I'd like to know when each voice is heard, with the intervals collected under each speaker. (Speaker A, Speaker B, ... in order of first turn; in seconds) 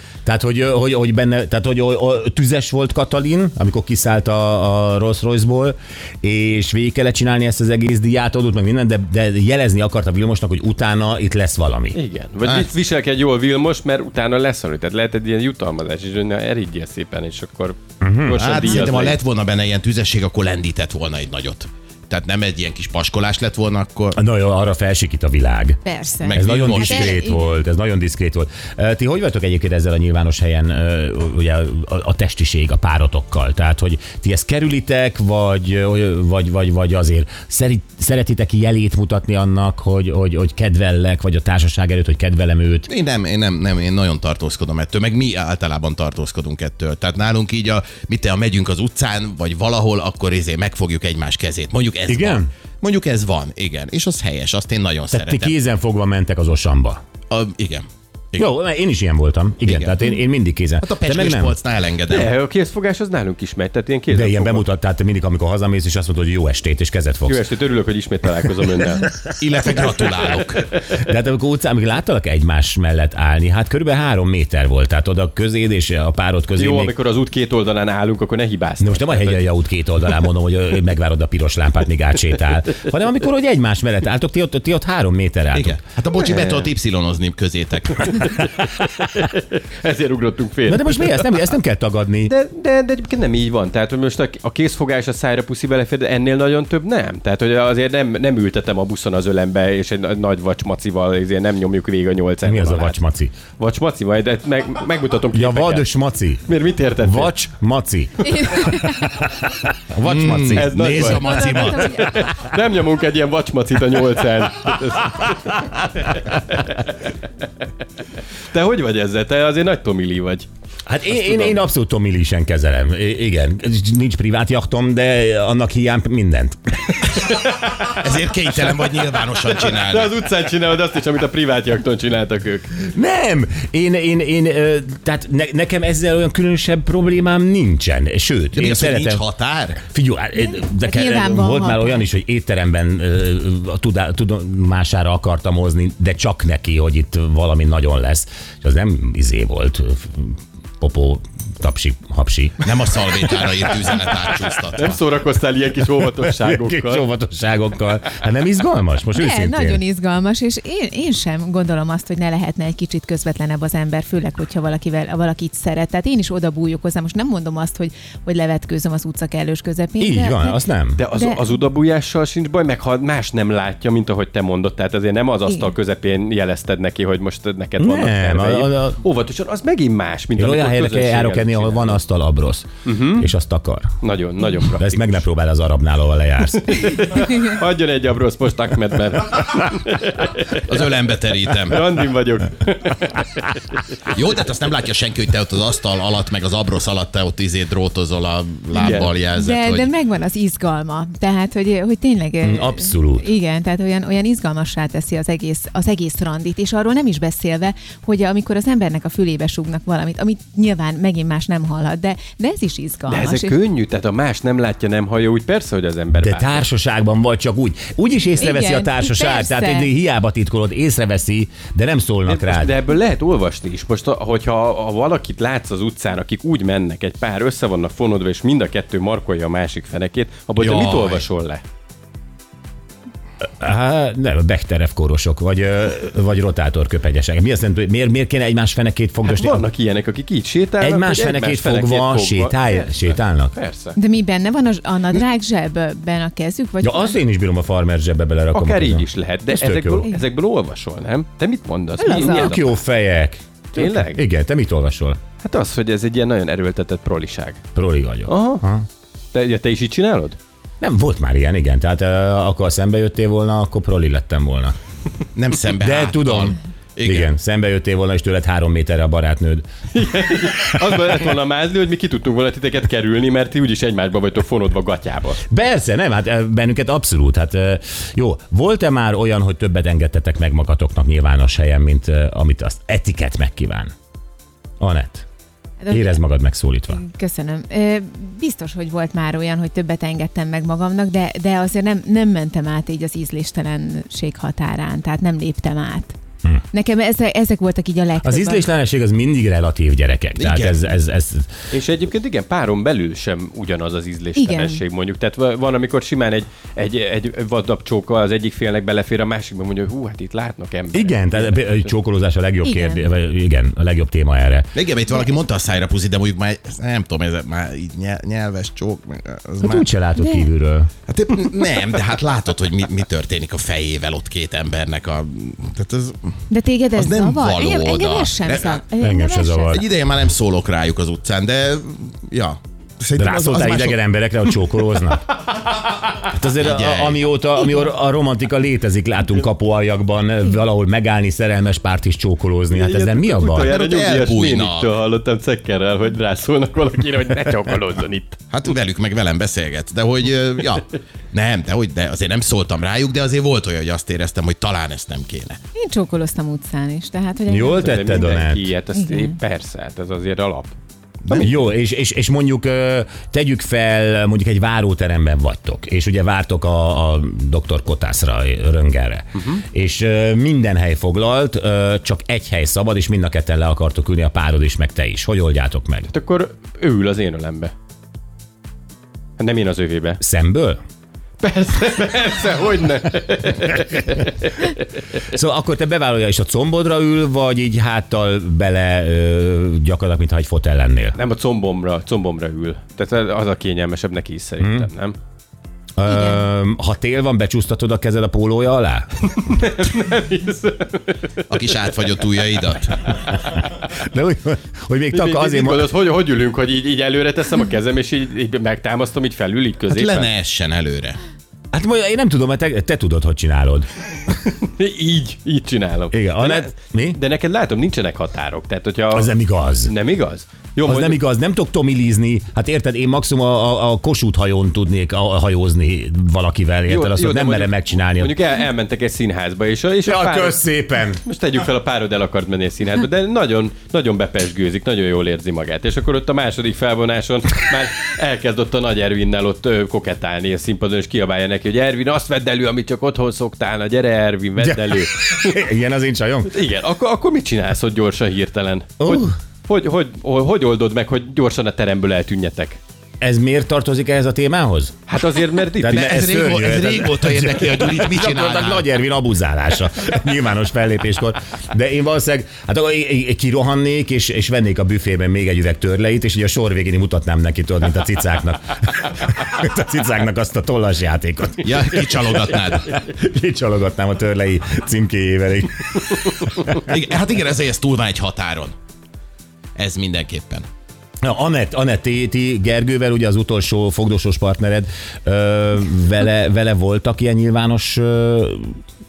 Speaker A: 0.2-12.0, 18.0-18.4, 24.1-42.9, 52.1-52.5, 55.1-57.0, 58.4-61.5, 64.1-67.4, 70.8-76.9, 78.8-85.8, 90.7-92.3, 102.4-103.3, 105.3-106.4, 107.0-110.7, 120.8-127.0, 132.8-139.2, 139.8-152.8, 156.4-159.8, 170.0-171.0, 177.8-179.0, 180.4-184.0, 184.7-186.9, 202.4-203.3, 216.1-222.8, 230.7-230.9, 233.6-239.7, 240.8-243.5, 246.8-250.1, 252.0-255.2, 257.7-258.9, 260.8-264.7, 265.8-269.6, 275.5-283.9, 284.8-285.2, 285.9-287.0, 298.2-301.5, 310.9-314.7, 319.6-320.9, 329.0-329.8, 333.2-335.2, 336.2-343.7, 357.5-358.7, 361.3-376.1, 380.2-380.8, 385.2-391.1, 394.6-394.9, 396.0-399.1, 403.3-405.9, 411.7-413.9, 416.1-417.2, 419.1-419.9, 420.8-428.4, 430.0-431.2, 444.6-446.5, 449.0-449.3, 453.2-454.9, 455.8-476.8, 481.2-488.8
Speaker B: 11.9-19.2, 62.1-64.7, 67.2-69.1, 76.5-79.5, 86.2-86.7, 88.1-91.3, 92.3-103.0, 103.6-105.9, 106.5-107.3, 110.5-117.0, 118.5-120.5, 121.1-121.6, 127.0-128.1, 129.0-132.7, 154.7-157.0, 171.0-182.0, 182.8-183.3, 184.0-185.2, 186.7-190.8, 191.5-193.4, 198.8-199.1, 213.1-216.6, 222.3-231.6, 239.2-244.0, 248.5-252.7, 253.7-254.2, 255.4-257.6, 258.3-258.6, 259.3-260.4, 269.9-275.4, 301.7-311.9, 342.7-348.4, 357.8-360.7, 376.1-377.7, 379.4-380.2, 381.4-384.8, 391.1-395.1, 399.3-401.8, 405.1-410.3, 414.6-421.2, 426.9-430.6, 431.2-445.6, 446.5-452.8, 455.1-456.2
Speaker C: 12.4-12.7, 18.4-24.2, 26.2-27.2, 42.9-55.5, 57.3-58.5, 59.6-60.1, 60.8-62.3, 69.4-70.7, 85.5-88.2, 110.0-111.9, 128.0-130.1, 138.5-139.8, 152.6-155.0, 190.7-192.0, 194.1-199.9, 230.6-231.0, 265.3-267.3, 300.4-300.9, 314.7-319.8, 321.1-326.4, 326.9-328.8, 329.7-334.0, 336.6-337.2, 343.6-344.9, 348.5-355.6, 401.5-403.1, 409.9-411.2, 455.8-458.8, 471.6-472.9, 476.9-478.7, 479.8-480.6
Speaker D: 25.8-27.6, 108.2-109.3, 111.0-112.2, 140.4-142.1, 159.1-171.5, 198.7-213.6, 218.4-219.9, 243.9-247.2, 252.0-252.6, 285.8-286.2, 286.9-296.1, 296.7-298.6, 304.4-304.8, 312.6-313.1, 320.2-320.5, 326.5-329.8, 355.7-358.2, 358.9-359.3